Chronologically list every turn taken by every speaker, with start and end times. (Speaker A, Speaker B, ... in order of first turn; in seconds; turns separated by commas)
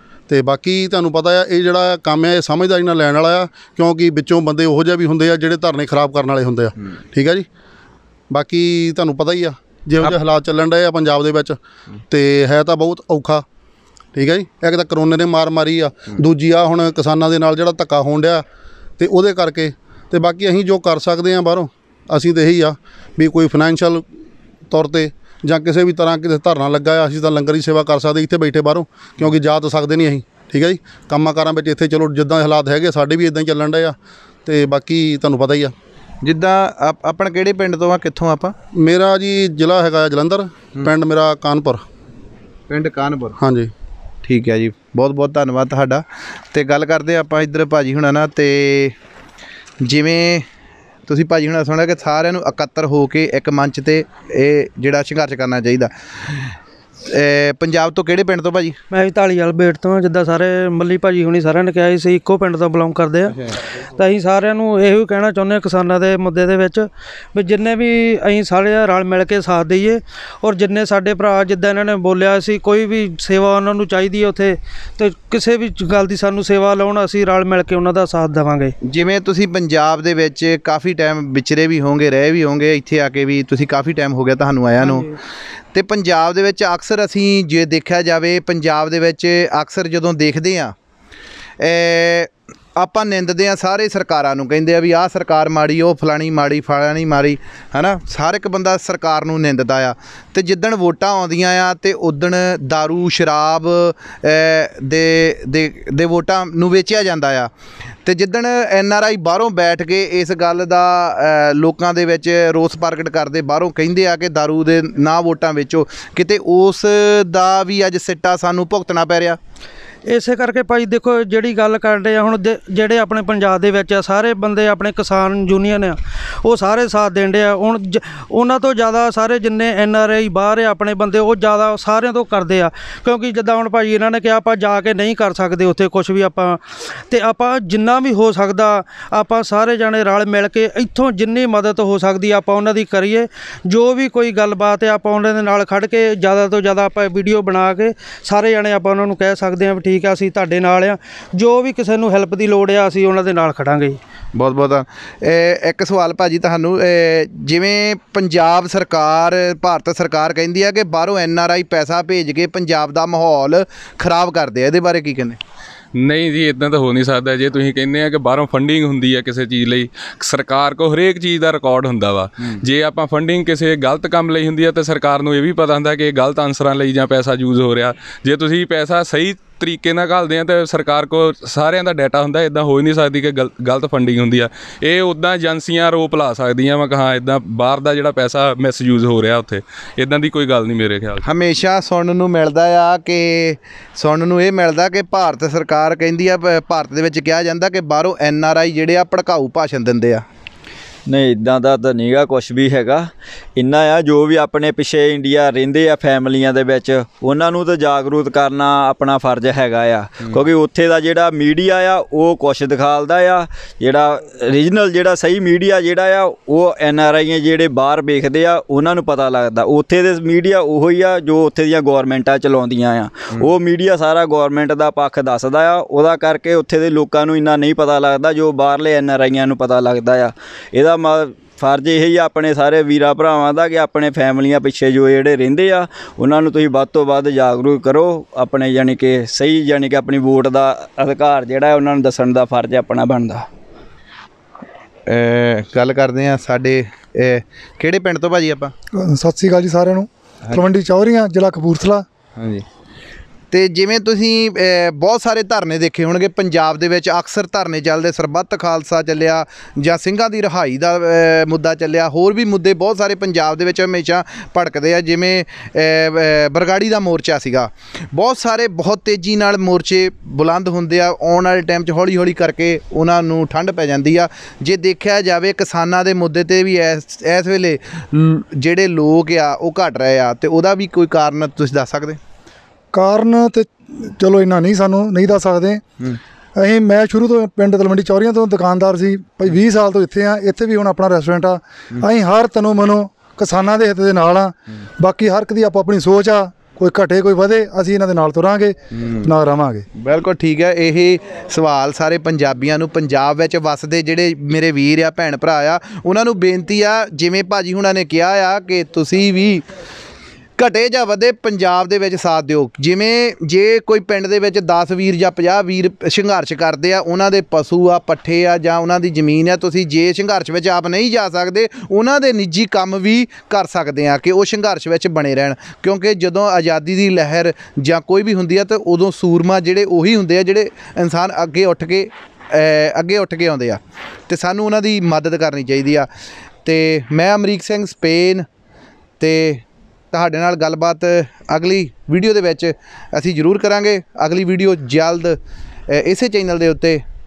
Speaker A: 0.3-7.5, Speaker A: 8.3-11.6, Speaker A: 12.1-13.4, Speaker A: 14.1-18.4, Speaker A: 19.0-24.0, Speaker A: 24.7-33.9, Speaker A: 34.5-35.7, Speaker B: 36.2-38.5, Speaker A: 38.7-41.8, Speaker B: 42.7-43.4, Speaker A: 43.4-43.7, Speaker B: 44.2-48.9, Speaker B: 49.8-50.4, Speaker B: 51.1-56.5, Speaker B: 57.1-58.7, Speaker C: 58.9-63.4, Speaker C: 63.9-78.7, Speaker B: 78.8-85.1, Speaker C: 84.8-85.1, Speaker B: 85.7-90.7, Speaker B: 91.6-107.5, Speaker B: 108.0-119.4, Speaker C: 120.1-154.0, Speaker B: 154.3-165.4, Speaker D: 166.0-191.2, Speaker B: 191.2-200.2, Speaker E: 201.1-243.4, Speaker B: 245.1-248.7, Speaker F: 248.9-252.1, Speaker B: 252.4-252.6, Speaker B: 253.5-282.2, Speaker F: 282.9-285.8, Speaker F: 286.6-299.8, Speaker B: 298.9-299.3, Speaker B: 300.0-309.6, Speaker B: 310.6-336.1, Speaker B: 336.6-338.4, Speaker B: 339.2-345.4, Speaker B: 345.9-347.0